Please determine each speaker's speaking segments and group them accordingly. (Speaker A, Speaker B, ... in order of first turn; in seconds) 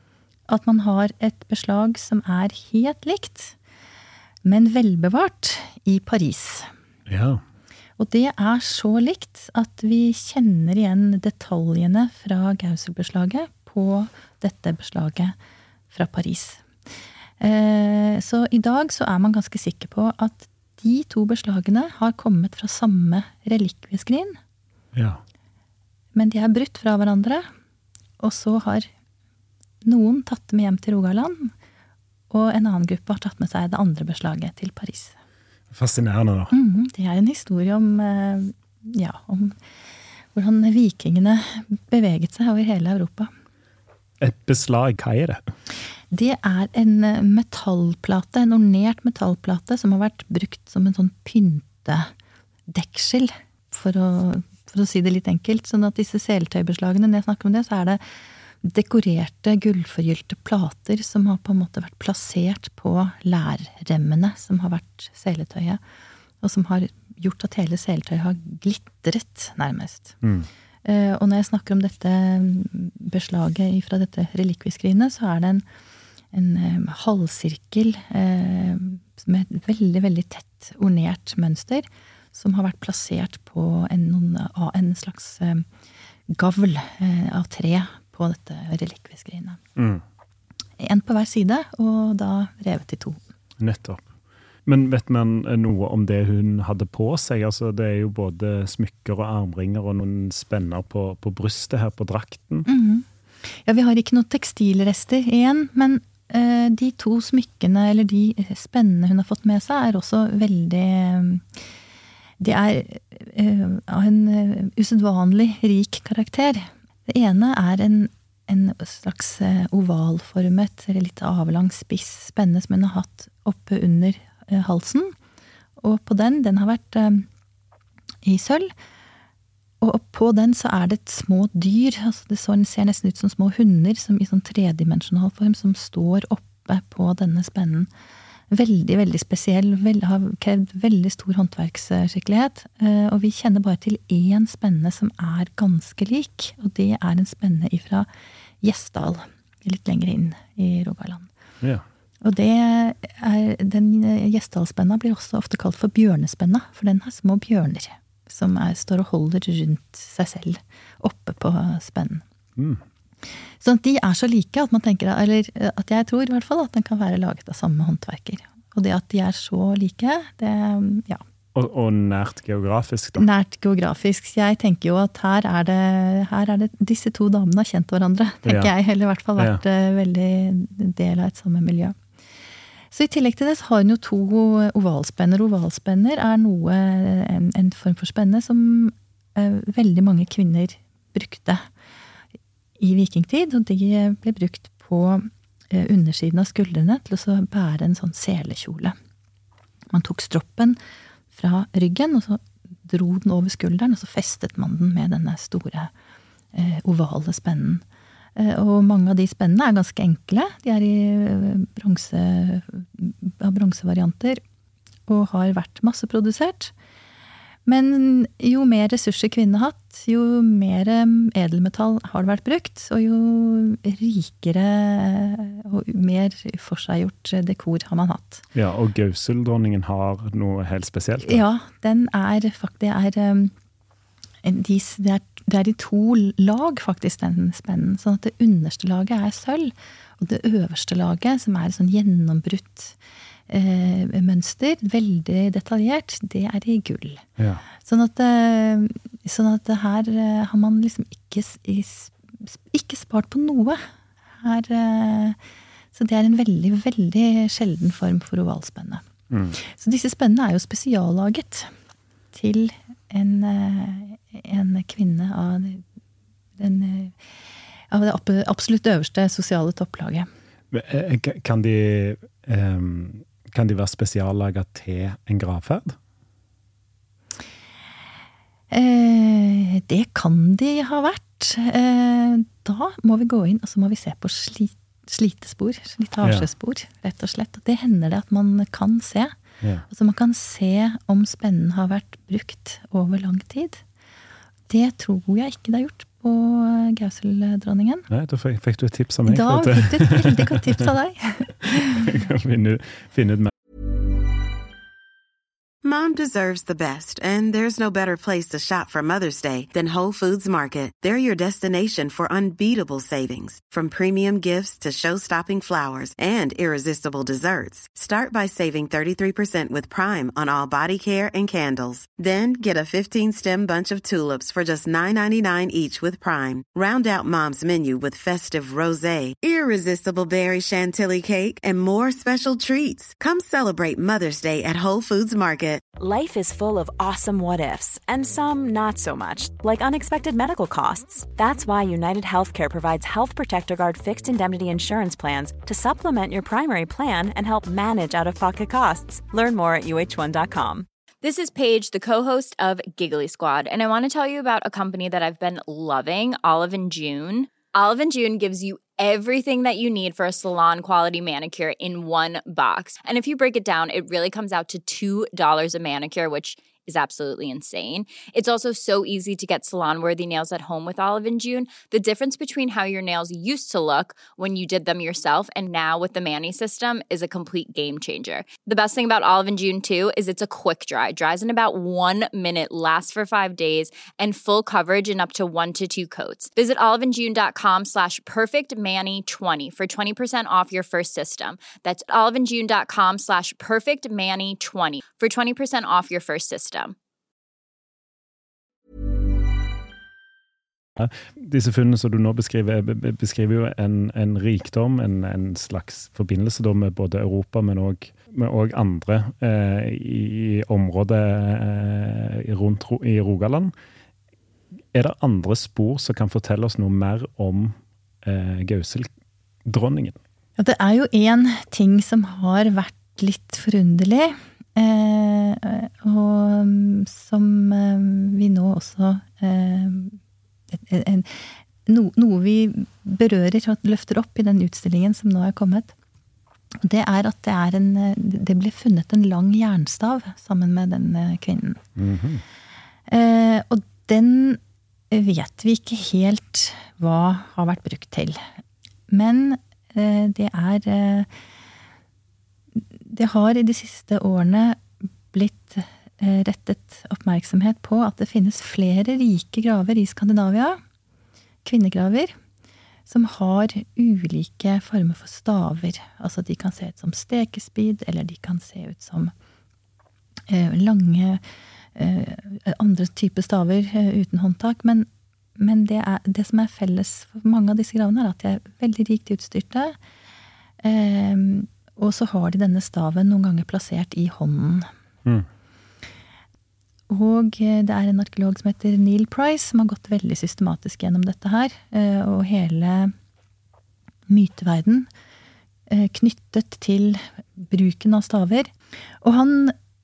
Speaker A: 0.5-3.5, 4.4-6.7, 8.0-15.3, 15.9-16.6, 17.4-24.4, 26.1-27.5, 28.2-28.9, 29.8-31.5, 32.3-35.1, 36.5-39.6, 40.3-43.3, 46.1-52.1, 52.7-58.0, 58.6-65.8, 66.4-70.2, 70.8-75.6, 76.3-85.7, 86.3-89.6, 90.8-93.2, 102.7-111.5, 112.4-125.1, 125.8-127.2, 128.2-128.7, 129.8-137.9, 138.5-148.1, 148.6-151.3, 152.2-162.2, 163.6-171.2, 173.2-181.9, 182.9-191.7, 192.8-198.9, 199.9-200.8, 201.3-205.9, 206.5-207.8, 208.3-214.4, 215.1-216.7, 217.7-228.4, 231.2-233.5, 234.4-242.9, 243.5-247.2, 247.8-253.8, 254.4-255.4, 255.9-259.0, 259.6-261.7, 262.3-265.8, 266.6-267.2, 267.9-270.3, 278.7-289.3, 289.9-293.8, 294.7-298.1, 299.2-302.0, 420.6-430.2, 430.7-435.9, 436.8-441.8, 443.1-444.6, 445.1-448.4, 449.1-451.3, 452.8-460.8, 461.6-462.3, 463.1-469.3, 470.5-471.4, 471.9-475.1, 475.6-479.9, 480.8-484.9, 487.1-493.1, 494.3-495.1, 495.9-498.7, 499.2-499.7
Speaker B: 7.1-7.4, 24.9-25.2, 35.7-36.5, 44.2-45.4, 70.2-70.5, 89.8-90.0, 93.6-94.0, 94.6-102.7, 162.6-162.8, 171.5-173.3, 178.4-178.7, 179.4-179.6, 228.5-231.4, 247.4-247.6, 259.3-259.6, 270.7-276.0, 286.2-286.5, 298.1-300.9, 301.8-303.5, 400.9-413.7, 414.9-419.1, 419.6-420.2, 441.9-442.4
Speaker C: 305.8-335.8
Speaker D: 336.0-350.9
Speaker E: 351.2-396.9